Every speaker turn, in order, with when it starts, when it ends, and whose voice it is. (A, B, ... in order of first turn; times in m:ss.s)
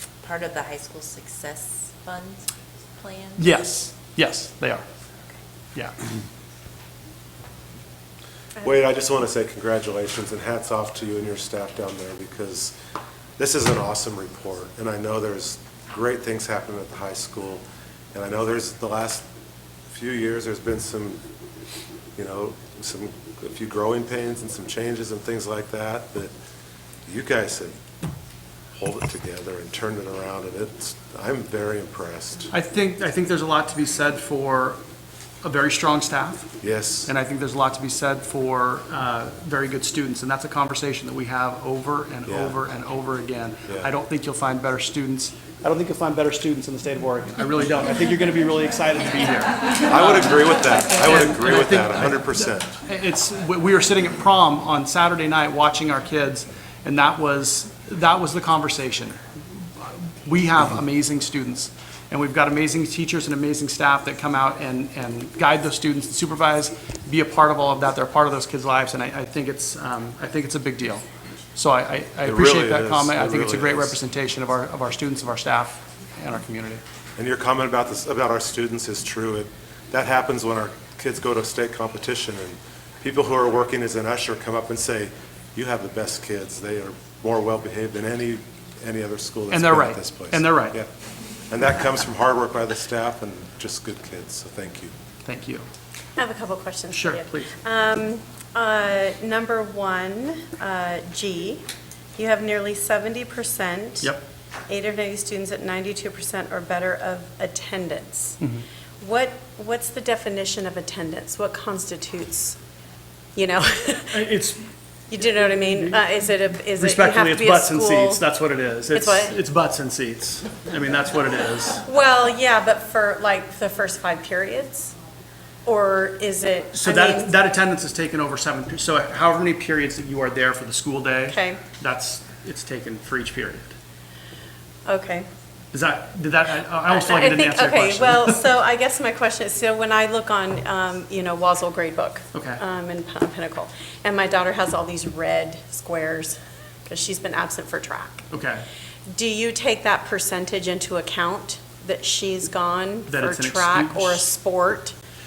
0:00.2-0:03.4 A
0:03.4-0:04.8 B
0:08.6-0:12.7 C
0:13.4-0:19.2 C
0:19.9-0:21.2 C
0:22.2-0:26.3 C
0:27.0-0:27.7 C
0:28.8-0:32.5 C
0:32.5-0:34.8 B
0:35.4-0:36.5 B
0:36.6-0:37.1 C
0:37.0-0:52.3 B
0:42.3-0:42.6 C
0:49.9-0:52.7 C
0:52.8-0:59.2 B
0:59.8-1:16.8 B
1:12.2-1:13.9 C
1:17.2-1:30.9 C
1:29.5-1:30.8 B
1:31.5-1:34.9 C
1:35.2-1:35.7 B
1:36.2-1:41.6 D
1:36.9-1:37.5 B
1:42.2-1:44.1 D
1:44.7-1:48.4 D
1:49.0-1:52.6 D
1:53.4-1:54.3 D
1:54.1-1:54.7 B
1:55.1-1:58.2 D
1:55.2-1:56.1 B
1:56.7-2:01.8 B
1:58.9-1:59.3 D
2:01.8-2:04.9 D
2:05.6-2:07.3 D
2:06.7-2:13.8 B
2:11.3-2:11.6 D
2:14.8-2:15.2 D
2:15.7-2:18.4 B
2:16.9-2:28.3 D
2:22.3-2:22.6 B
2:28.3-2:28.6 B
2:29.1-2:35.0 D
2:33.1-2:34.2 B